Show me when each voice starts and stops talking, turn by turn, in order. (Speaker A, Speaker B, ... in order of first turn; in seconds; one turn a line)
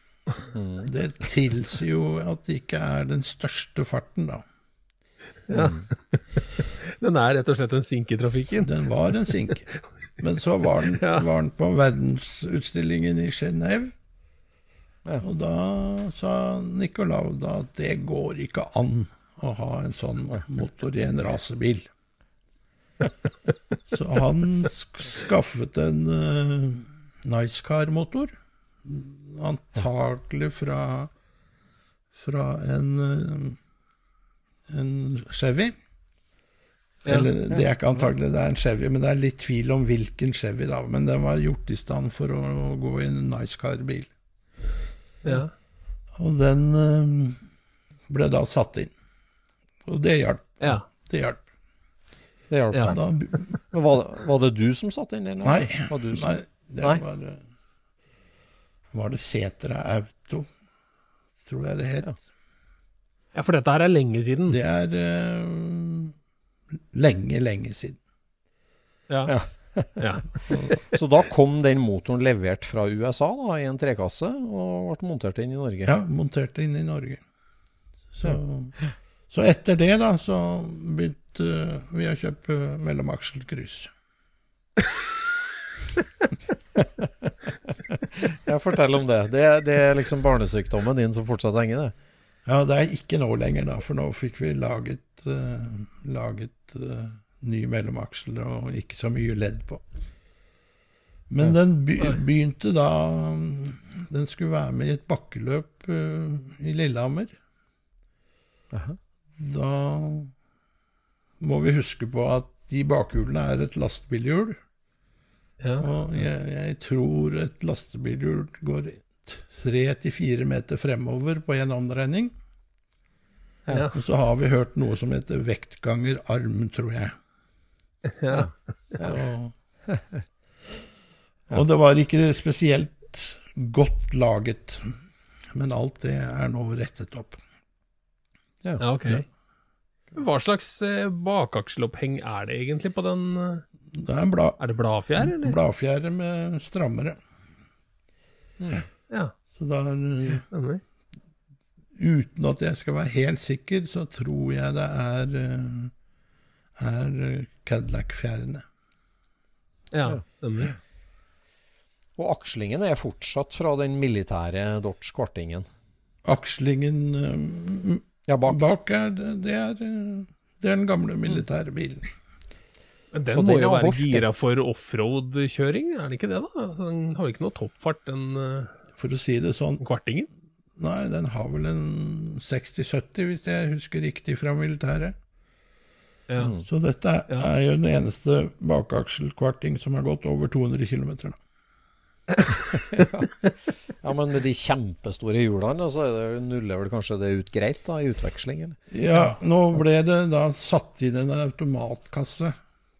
Speaker A: 0.5-0.9
Speaker B: 0.8-4.4
Speaker C: 5.5-9.5
Speaker A: 5.5-5.8
Speaker B: 8.6-13.9
Speaker C: 11.0-11.2
Speaker B: 15.2-21.9
Speaker B: 23.9-31.1
Speaker B: 32.1-33.6
Speaker B: 34.7-35.8
Speaker B: 37.0-44.1
Speaker C: 45.2-45.5
Speaker B: 46.1-47.4
Speaker B: 48.1-48.9
Speaker B: 49.8-51.4
Speaker A: 52.5-53.0
Speaker B: 52.9-53.6
Speaker A: 53.7-57.0
Speaker B: 55.4-57.4
Speaker B: 58.9-60.5
Speaker B: 61.4-62.2
Speaker C: 63.3-64.6
Speaker B: 64.5-66.1
Speaker B: 66.9-68.0
Speaker C: 69.1-70.2
Speaker A: 69.2-70.1
Speaker B: 70.5-70.8
Speaker A: 70.9-75.9
Speaker B: 75.8-77.2
Speaker B: 78.1-78.8
Speaker A: 78.2-78.9
Speaker B: 79.3-83.9
Speaker A: 86.8-87.1
Speaker A: 88.2-91.9
Speaker B: 92.5-99.8
Speaker B: 101.3-107.3
Speaker A: 108.7-109.0
Speaker B: 109.3-110.3
Speaker B: 111.4-114.6
Speaker C: 115.6-115.9
Speaker B: 115.8-122.3
Speaker C: 123.7-123.9
Speaker B: 123.9-127.1
Speaker C: 128.2-128.7
Speaker B: 129.0-129.5
Speaker A: 129.9-130.2
Speaker B: 131.5-134.9
Speaker B: 135.5-137.4
Speaker C: 138.8-139.2
Speaker C: 140.2-143.6
Speaker B: 143.9-144.6
Speaker C: 144.6-145.6
Speaker B: 145.2-147.2
Speaker A: 148.6-148.8
Speaker B: 149.5-150.4
Speaker C: 150.5-150.8
Speaker B: 151.9-155.9
Speaker B: 156.8-158.6
Speaker C: 159.9-160.7
Speaker A: 162.2-165.7
Speaker B: 166.2-172.1
Speaker A: 168.3-168.6
Speaker C: 173.1-178.7
Speaker A: 173.3-174.2
Speaker B: 178.9-179.8
Speaker C: 179.8-180.3
Speaker B: 180.8-185.2
Speaker A: 186.4-186.7
Speaker B: 186.6-191.4
Speaker A: 192.9-198.8
Speaker B: 198.9-202.6